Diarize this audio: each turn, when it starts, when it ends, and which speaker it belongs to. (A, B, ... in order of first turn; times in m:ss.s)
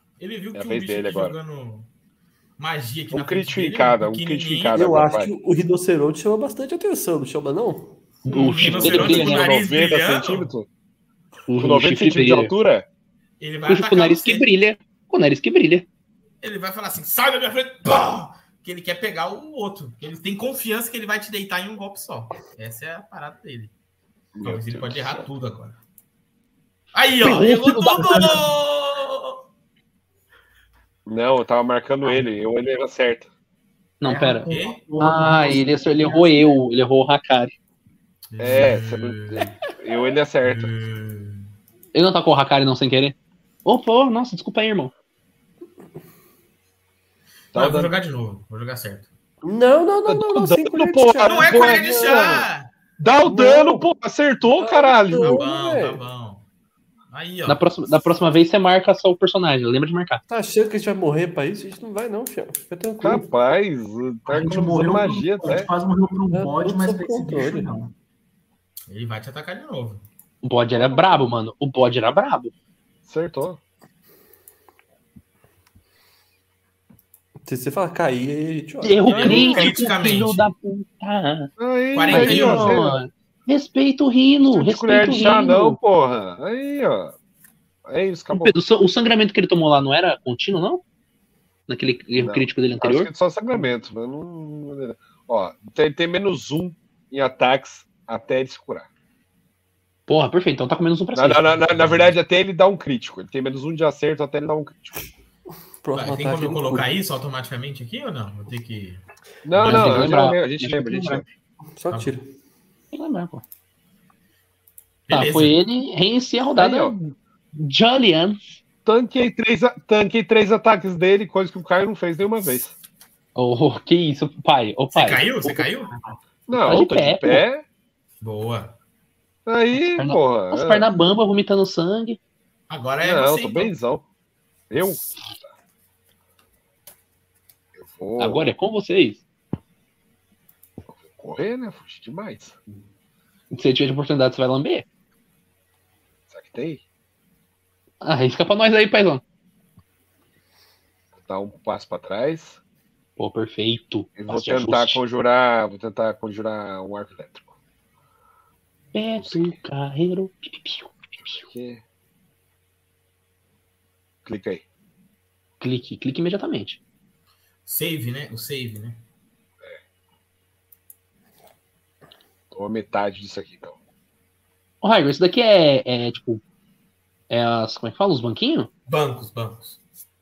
0:00.2-0:01.9 A
0:00.5-0:01.4 B
0:02.6-0:04.8 A
0:03.1-0:05.3 B
0:04.7-0:08.0 C
0:08.2-0:09.5 D
0:08.3-0:10.5 A
0:08.6-0:10.7 B
0:11.5-0:12.5 D
0:11.6-0:12.9 B
0:13.4-0:14.5 A
0:13.7-0:15.9 D
0:16.4-0:23.7 A
0:24.3-0:25.3 B
0:24.4-0:25.8 A
0:26.9-0:29.4 A
0:27.2-0:28.4 D
0:31.0-0:33.3 B
0:34.0-0:34.5 D
0:34.0-0:36.6 E
0:34.5-0:34.8 A
0:35.0-0:37.5 D
0:38.3-0:39.5 A
0:38.4-0:40.7 B
0:40.4-0:41.5 A
0:41.9-0:44.9 D
0:47.5-0:49.1 A
0:47.6-0:47.9 B
0:49.4-0:52.4 C
0:50.1-0:52.4 B
0:51.2-0:52.7 A
0:53.0-0:55.4 B
0:53.2-0:53.9 C
0:54.5-0:56.0 C
0:55.2-0:56.4 A
0:57.1-0:57.6 A
0:57.5-1:00.2 D
1:00.3-1:03.3 C
1:03.0-1:05.7 B
1:04.3-1:07.9 E
1:06.3-1:07.7 C
1:08.9-1:10.0 A
1:10.4-1:12.5 D
1:13.0-1:13.6 B
1:17.4-1:19.5 C
1:18.8-1:21.5 D
1:19.1-1:20.5 A
1:19.1-1:19.7 B
1:21.6-1:23.0 B
1:21.9-1:22.8 A
1:22.1-1:25.8 D
1:24.5-1:27.1 B
1:27.8-1:28.6 B
1:28.3-1:30.8 D
1:31.7-1:33.1 D
1:32.1-1:38.9 B
1:40.1-1:42.1 D
1:41.1-1:45.0 B
1:45.8-1:46.9 C
1:46.0-1:50.1 A
1:49.4-1:51.3 B
1:49.6-1:51.2 D
1:51.8-1:52.3 C
1:52.9-1:53.4 D
1:55.1-1:55.6 A
1:55.1-1:58.4 D
1:56.6-1:56.9 B
1:58.8-2:02.7 B
2:03.4-2:05.7 D
2:04.9-2:05.9 A
2:06.5-2:07.6 B
2:06.5-2:07.4 D
2:08.2-2:08.8 A
2:09.4-2:10.9 B
2:09.8-2:12.2 D
2:12.7-2:13.7 A
2:13.0-2:14.0 B
2:14.7-2:15.0 B
2:17.7-2:18.4 B
2:18.2-2:19.2 D
2:20.9-2:22.6 B
2:23.5-2:24.9 D
2:26.3-2:26.8 B
2:28.0-2:29.2 D
2:31.1-2:32.6 B
2:33.2-2:35.0 D
2:34.2-2:37.5 B
2:38.9-2:41.4 D
2:39.2-2:39.6 B
2:41.2-2:41.8 B
2:44.2-2:44.6 B
2:45.6-2:46.8 D
2:47.7-2:49.0 A
2:52.5-2:53.8 B
2:54.8-2:56.4 D
2:57.3-2:58.7 D
2:58.9-2:59.8 A